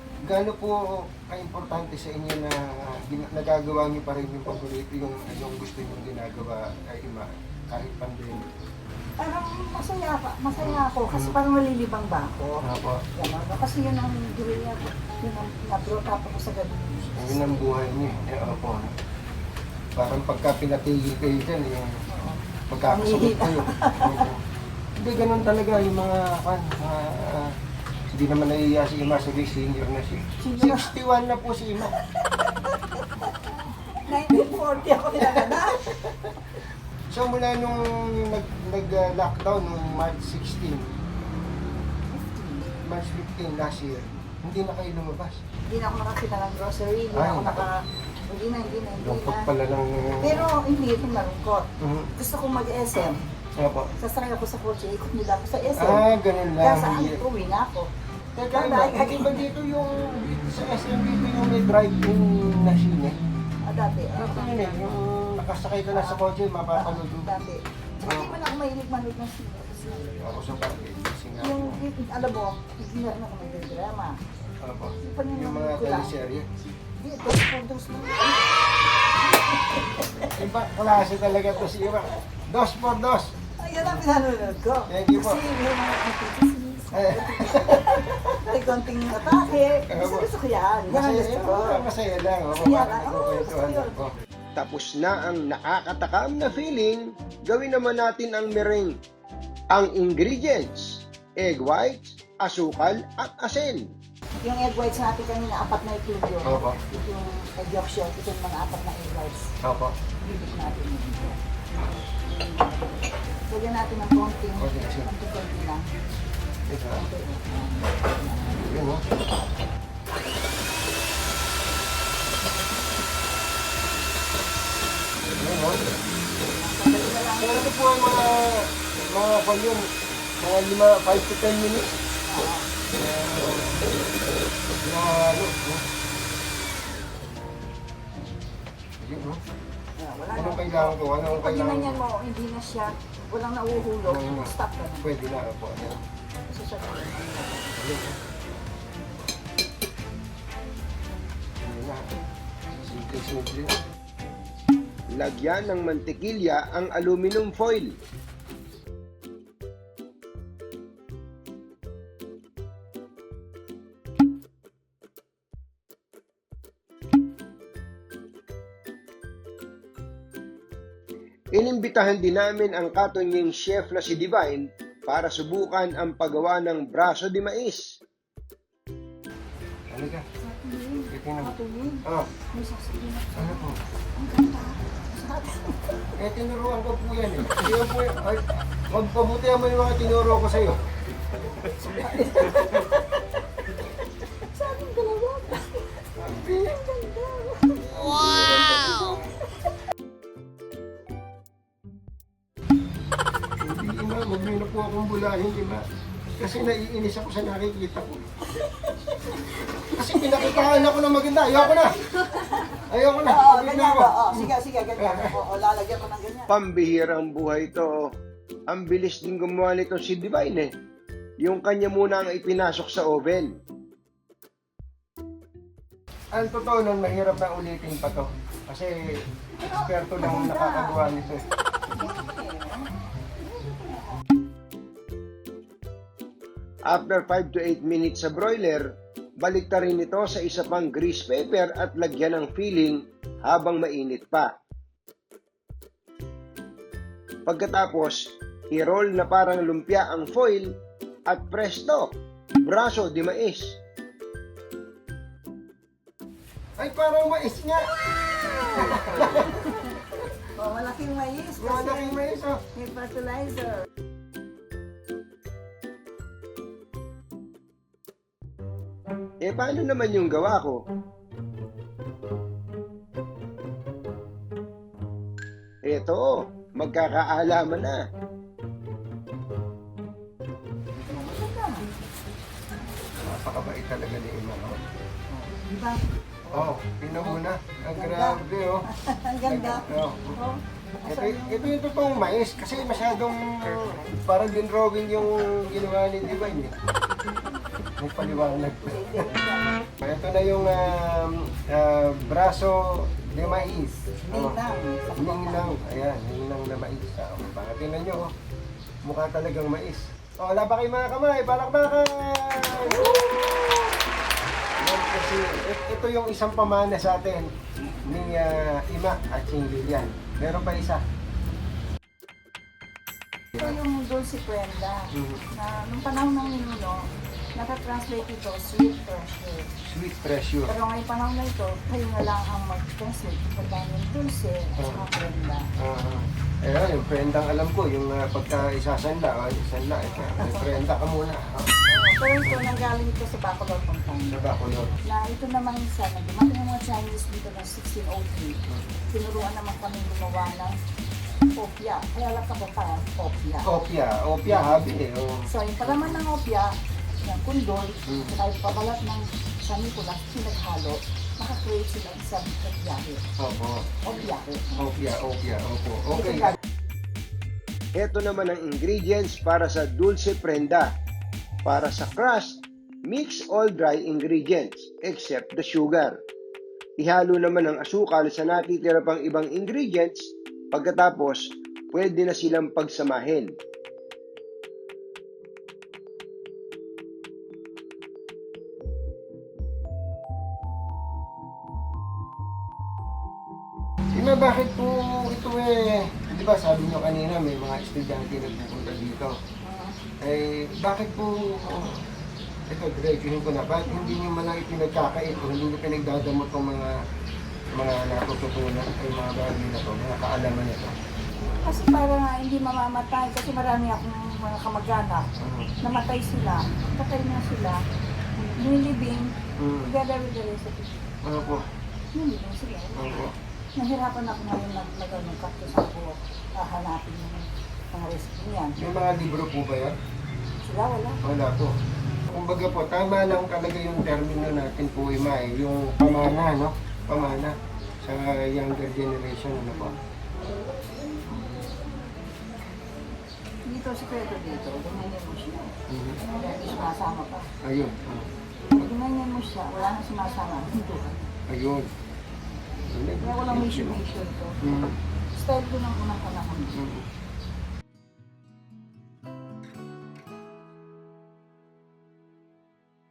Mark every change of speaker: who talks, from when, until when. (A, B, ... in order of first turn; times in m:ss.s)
0:00.2-0:08.5 A
0:09.2-0:17.6 B
0:10.6-0:11.4 A
0:12.6-0:13.0 A
0:17.2-0:18.9 A
0:20.0-0:21.9 A
0:22.1-0:24.3 B
0:22.7-0:24.4 A
0:25.0-0:27.5 A
0:28.1-0:31.9 A
0:30.4-0:30.9 B
0:31.9-0:36.0 B
0:34.3-0:34.6 A
0:35.2-0:36.3 A
0:37.1-0:40.9 A
0:42.1-0:42.7 B
0:42.8-0:45.4 A
0:45.7-0:49.5 B
0:47.1-0:47.7 A
0:49.0-0:50.5 A
0:50.2-0:53.3 B
0:51.8-0:52.1 A
0:53.6-0:53.9 A
0:54.0-0:56.0 B
0:55.8-0:57.2 A
0:56.6-0:57.9 B
0:58.4-1:03.2 A
0:58.5-0:59.5 B
1:03.6-1:04.8 B
1:04.2-1:07.2 A
1:05.9-1:10.4 B
1:08.0-1:08.4 A
1:10.2-1:11.8 A
1:11.4-1:14.2 B
1:14.6-1:16.5 A
1:15.0-1:16.1 B
1:17.0-1:20.4 B
1:20.3-1:24.0 A
1:23.6-1:31.8 B
1:24.9-1:25.4 A
1:26.9-1:28.2 A
1:29.9-1:30.3 A
1:30.9-1:34.1 A
1:32.5-1:33.9 B
1:34.6-1:39.0 C
1:39.7-1:43.9 C
1:44.4-1:49.5 B
1:46.4-1:46.8 A
1:49.6-1:49.9 A
1:50.2-1:51.4 B
1:52.3-1:52.9 B
1:53.5-1:56.0 B
1:54.6-1:55.1 A
1:56.7-1:57.0 A
1:56.9-1:58.6 B
1:58.6-1:59.0 A
2:05.3-2:06.0 A
2:06.4-2:07.7 B
2:07.4-2:09.9 A
2:10.4-2:12.0 A
2:12.2-2:12.7 B
2:12.9-2:13.8 A
2:14.8-2:15.8 A
2:19.0-2:19.4 A
2:20.0-2:25.1 B
2:20.3-2:22.0 A
2:24.0-2:24.5 A
2:25.0-2:26.0 A
2:26.5-2:27.8 B
2:27.8-2:28.2 A
2:31.6-2:32.1 A
2:32.8-2:33.8 A
2:35.1-2:38.0 C
2:51.5-2:58.0 C
2:59.9-3:00.2 A
3:00.4-3:06.1 B
3:01.1-3:01.5 A
3:03.4-3:03.8 A
3:06.2-3:10.8 A
3:11.6-3:13.2 B
3:11.6-3:12.9 A
3:13.8-3:19.4 B
3:16.2-3:16.8 A
3:17.9-3:18.9 A
3:23.6-3:25.8 A
3:26.4-3:28.2 A
3:28.5-3:36.5 B
3:29.9-3:32.0 A
3:32.9-3:35.3 A
3:36.5-3:38.1 C
3:38.7-3:40.7 C
3:41.4-3:43.5 C
3:46.3-3:48.9 A
3:49.6-3:51.0 B
3:49.6-3:51.4 A
3:51.9-3:54.2 B
3:56.9-3:58.9 C
3:59.4-4:04.5 C
4:07.4-4:13.8 C
4:16.8-4:17.9 A
4:18.5-4:20.0 B
4:18.7-4:19.9 A
4:20.5-4:22.2 B
4:21.6-4:22.6 A
4:22.7-4:23.8 B
4:29.4-4:30.8 C
4:35.8-4:38.0 C
4:41.0-4:41.9 B
4:43.2-4:44.8 A
4:45.4-4:47.4 B
4:46.5-4:48.8 A
4:47.9-4:51.7 B
4:49.4-4:50.4 A
4:51.1-4:56.7 A
4:58.0-4:59.3 A
4:58.2-4:59.8 B
5:00.0-5:04.6 A
5:03.5-5:05.7 B
5:05.2-5:08.3 A
5:09.0-5:13.7 A
5:12.9-5:13.3 B
5:14.8-5:17.5 A
5:18.0-5:21.0 A
5:23.6-5:29.7 B
5:25.1-5:25.4 A
5:29.8-5:30.7 A
5:30.7-5:35.7 B
5:35.8-5:41.7 A
5:40.4-5:40.7 B
5:41.8-5:44.4 B
5:44.3-5:44.9 A
5:45.0-5:50.8 B
5:51.6-5:53.7 B
5:53.6-5:56.2 A
5:54.5-5:54.8 B
5:55.5-6:03.2 B
5:58.1-5:58.3 A
6:03.4-6:04.0 A
6:04.0-6:04.9 B
6:04.8-6:06.5 A
6:06.1-6:06.6 B
6:07.9-6:10.9 C
6:11.6-6:16.2 C
6:17.0-6:23.5 C
6:34.1-6:39.4 A
6:39.6-6:40.0 B
6:40.2-6:42.0 A
6:42.7-6:47.0 A
6:43.8-6:44.2 B
6:47.8-6:51.0 A
6:51.6-6:55.3 B
6:55.4-6:55.7 A
6:55.8-6:57.8 B
6:58.4-6:59.3 B
6:59.6-6:59.9 A
6:59.8-7:01.1 B
7:01.2-7:01.6 A
7:02.1-7:03.1 B
7:03.0-7:03.3 A
7:03.8-7:08.8 B
7:08.8-7:10.0 A
7:10.6-7:11.2 B
7:11.2-7:11.7 A
7:12.3-7:19.9 A
7:21.3-7:21.7 A
7:23.7-7:27.5 B
7:25.9-7:26.2 A
7:27.6-7:28.8 A
7:28.6-7:31.2 B
7:31.5-7:31.9 A
7:32.8-7:34.0 A
7:33.2-7:34.6 B
7:34.6-7:35.0 A
7:35.3-7:36.8 B
7:36.7-7:37.1 A